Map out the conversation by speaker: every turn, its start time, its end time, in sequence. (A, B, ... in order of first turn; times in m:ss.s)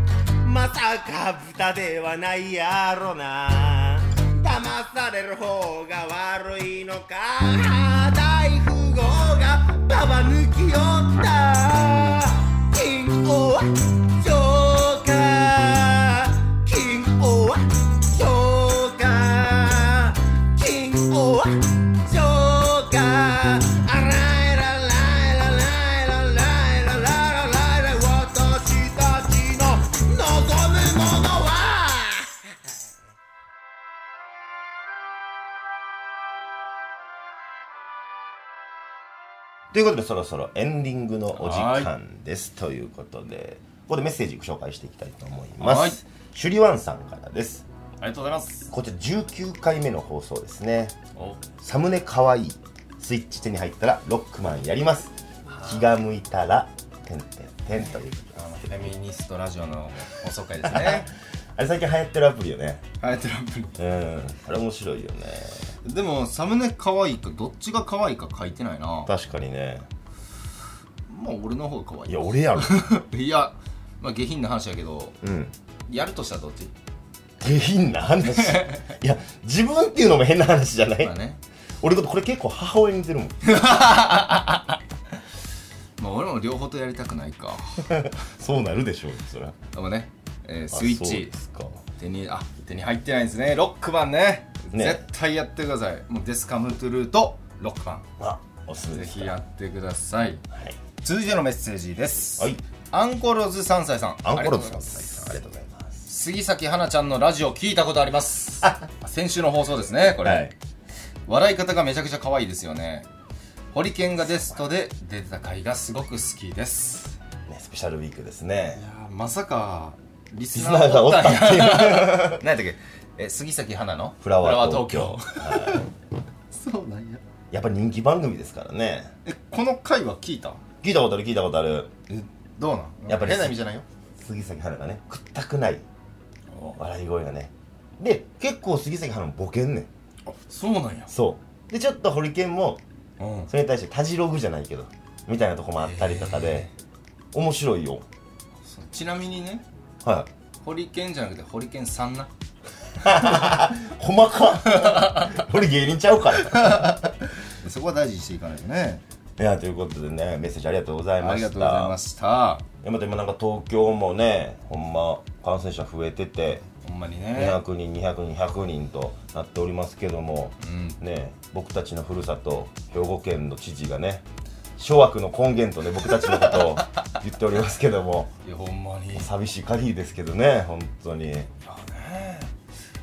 0:00.4-0:32.3 A
0:39.7-0:47.6 B
0:41.3-0:41.9 C
0:45.6-0:46.0 C
0:48.0-0:48.7 C
0:48.7-0:51.0 B
0:51.1-0:51.4 C
0:51.6-0:58.9 B
0:55.5-0:55.9 C
0:57.8-1:01.1 C
1:00.6-1:02.8 B
1:03.0-1:03.8 C
1:03.8-1:05.7 B
1:05.8-1:09.1 C
1:09.1-1:09.9 B
1:11.1-1:15.2 C
1:12.1-1:12.9 B
1:15.2-1:15.5 B
1:15.9-1:16.7 C
1:17.4-1:21.1 B
1:18.4-1:18.8 C
1:21.0-1:21.4 C
1:21.8-1:23.4 B
1:23.4-1:24.8 C
1:26.0-1:28.0 C
1:27.9-1:29.6 B
1:29.7-1:38.0 C
1:30.7-1:31.8 B
1:34.7-1:35.0 B
1:38.2-1:39.4 B
1:38.9-1:40.4 C
1:40.5-1:40.8 B
1:41.0-1:45.3 C
1:44.2-1:46.0 B
1:46.0-1:50.5 C
1:50.2-1:50.5 B
1:51.3-1:53.1 C
1:53.7-1:57.2 C
1:57.5-1:58.8 B
1:58.7-2:05.8 C
2:00.5-2:02.4 B
2:04.2-2:05.8 B
2:06.5-2:07.2 C
2:07.5-2:09.1 B
2:09.2-2:10.6 C
2:10.8-2:11.9 B
2:12.1-2:13.8 C
2:13.1-2:13.6 B
2:14.2-2:15.8 B
2:16.5-2:16.8 C
2:16.8-2:19.9 B
2:20.2-2:21.1 C
2:21.1-2:22.8 B
2:23.2-2:23.5 C
2:23.5-2:26.7 B
2:25.8-2:26.7 C
2:27.3-2:28.0 B
2:28.6-2:29.6 C
2:30.0-2:30.3 B
2:30.6-2:32.3 C
2:33.0-2:37.0 B
2:34.8-2:35.2 C
2:36.5-2:39.0 C
2:39.4-2:42.0 B
2:41.2-2:42.6 C
2:42.8-2:46.6 B
2:46.8-2:47.6 C
2:47.3-2:54.2 B
2:50.6-2:51.0 C
2:54.8-2:58.3 B
2:56.2-2:56.7 C
2:58.4-2:59.3 C
2:59.1-3:01.5 B
3:01.6-3:02.5 C